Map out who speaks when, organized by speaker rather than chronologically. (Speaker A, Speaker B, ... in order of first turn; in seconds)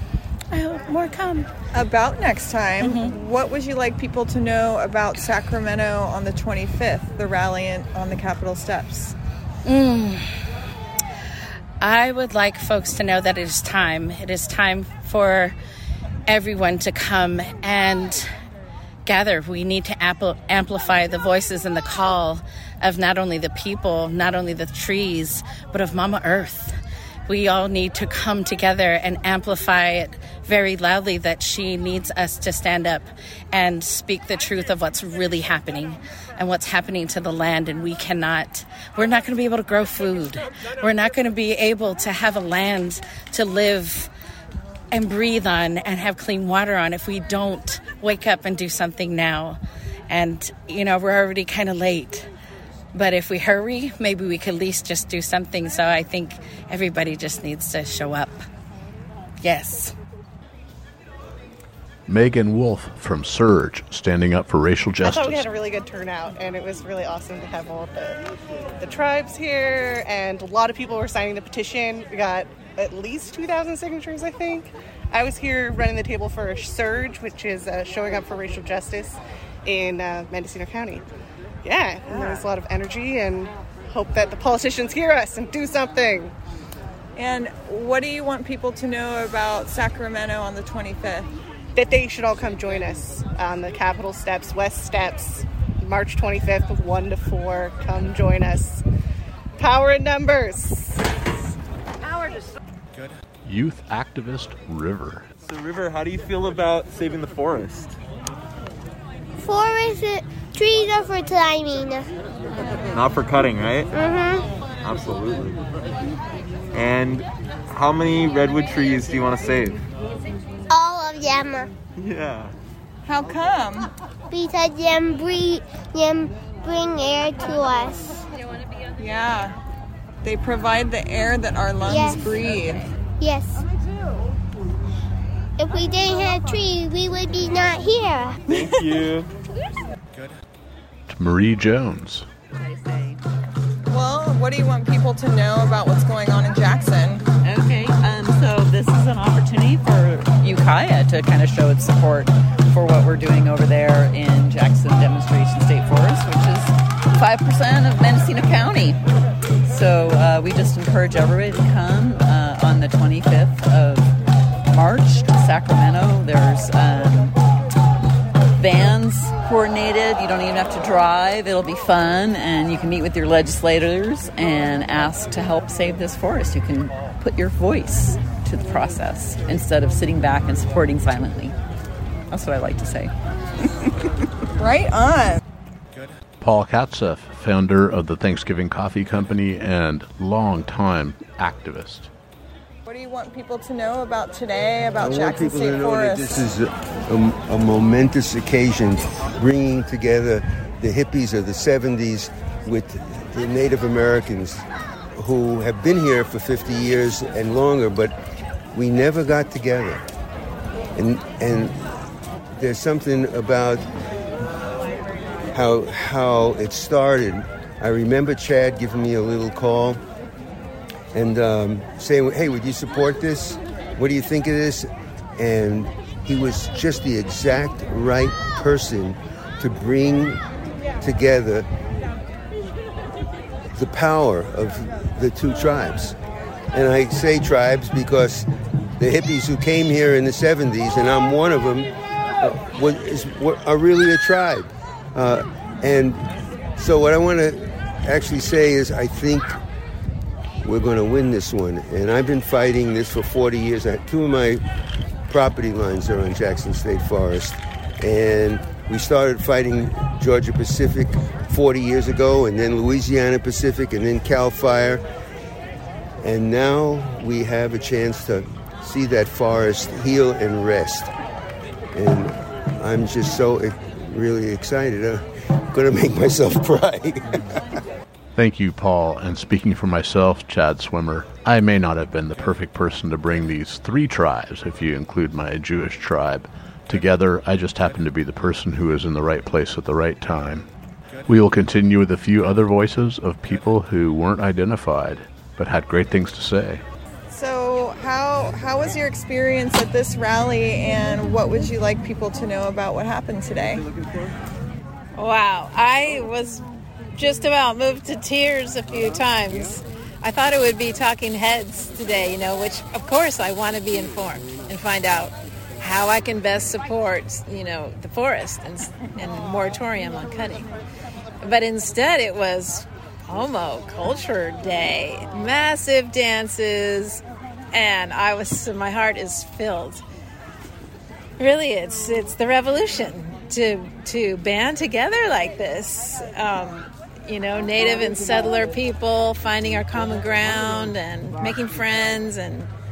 Speaker A: 0.5-1.5, 2.8-3.1, 9.7-10.4, 11.8-15.6, 16.3-18.3, 19.1-26.8, 27.3-44.1, 44.9-52.3, 52.9-58.4, 59.4-60.0
Speaker B: 1.7-9.2, 82.1-82.5, 87.2-91.3, 123.0-123.9, 129.0-129.6, 130.2-132.9, 143.9-147.2, 184.6-185.4, 192.9-196.5, 297.3-303.9
Speaker C: 62.1-65.5, 103.4-105.3, 141.1-142.3, 186.4-192.1, 278.4-290.7, 291.2-296.8
Speaker D: 65.0-68.2, 68.8-81.0, 81.6-86.3, 91.8-98.8, 99.6-101.2
Speaker E: 105.5-108.0, 112.9-113.9, 114.8-115.6, 116.7-119.8, 122.0-122.5, 138.6-139.3
Speaker F: 109.4-112.1, 113.9-114.5, 120.7-121.7, 124.3-128.3, 131.8-132.3, 133.2-133.7, 135.6-138.4
Speaker G: 142.5-143.2, 147.4-159.0, 159.7-164.2, 164.7-167.4, 168.6-181.6, 182.3-183.1
Speaker H: 195.0-208.1, 208.7-210.1, 211.0-213.9, 215.5-220.0, 221.1-230.4, 231.0-231.7, 233.7-236.2, 236.7-249.6, 250.6-254.6, 255.3-265.0, 266.2-271.1, 271.9-277.6
Speaker I: 305.1-320.7, 321.4-330.0, 331.4-342.7